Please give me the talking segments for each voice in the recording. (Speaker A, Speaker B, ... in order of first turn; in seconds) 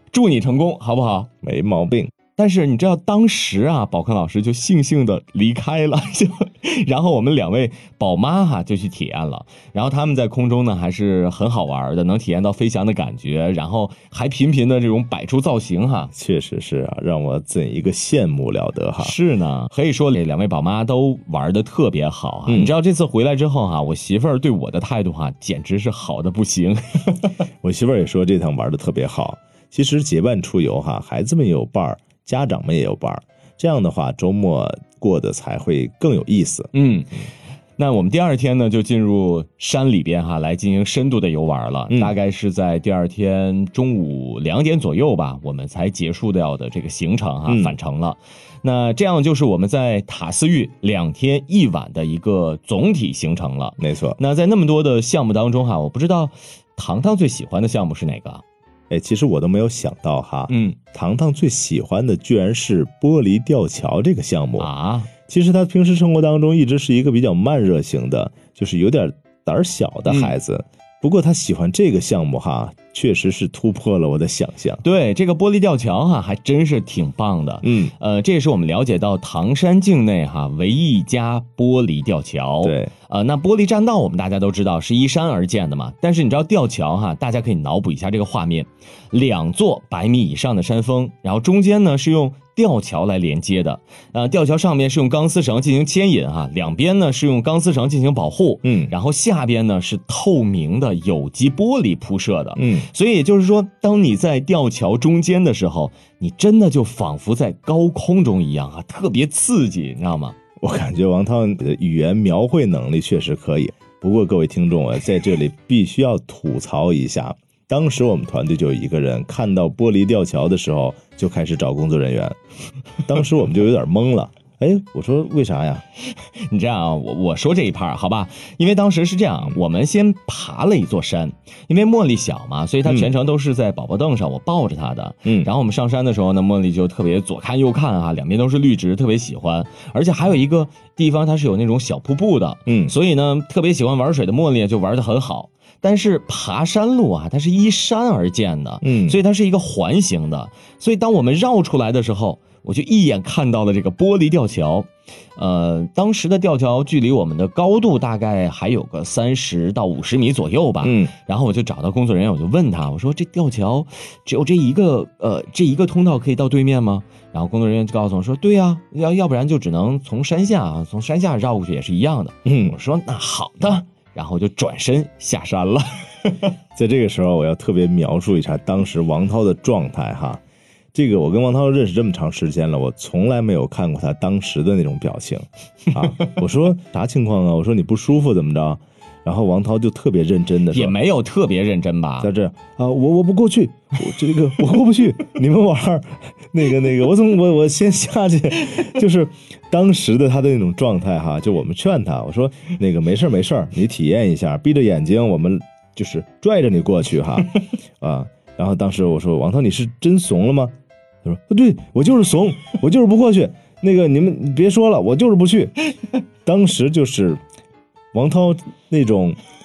Speaker A: 0.1-1.3, 2.4-16.1, 19.0-27.4, 36.7-37.2, 37.8-58.4, 60.5-60.8, 64.6-65.1, 70.1-70.3, 74.8-110.4, 126.1-176.5, 186.0-186.4, 190.7-192.3
Speaker B: 1.4-2.1, 16.1-19.1, 22.5-22.7, 27.6-36.7, 47.5-47.8, 53.8-54.2, 58.9-64.7, 65.3-74.8, 77.6-77.9, 82.6-82.9, 98.6-98.9, 102.6-102.9, 110.6-122.4, 123.0-125.8, 142.7-142.9, 148.8-149.2, 160.8-161.1, 172.4-172.8, 176.7-180.4, 180.9-190.9, 192.2-215.7, 216.4-217.4, 218.1-219.4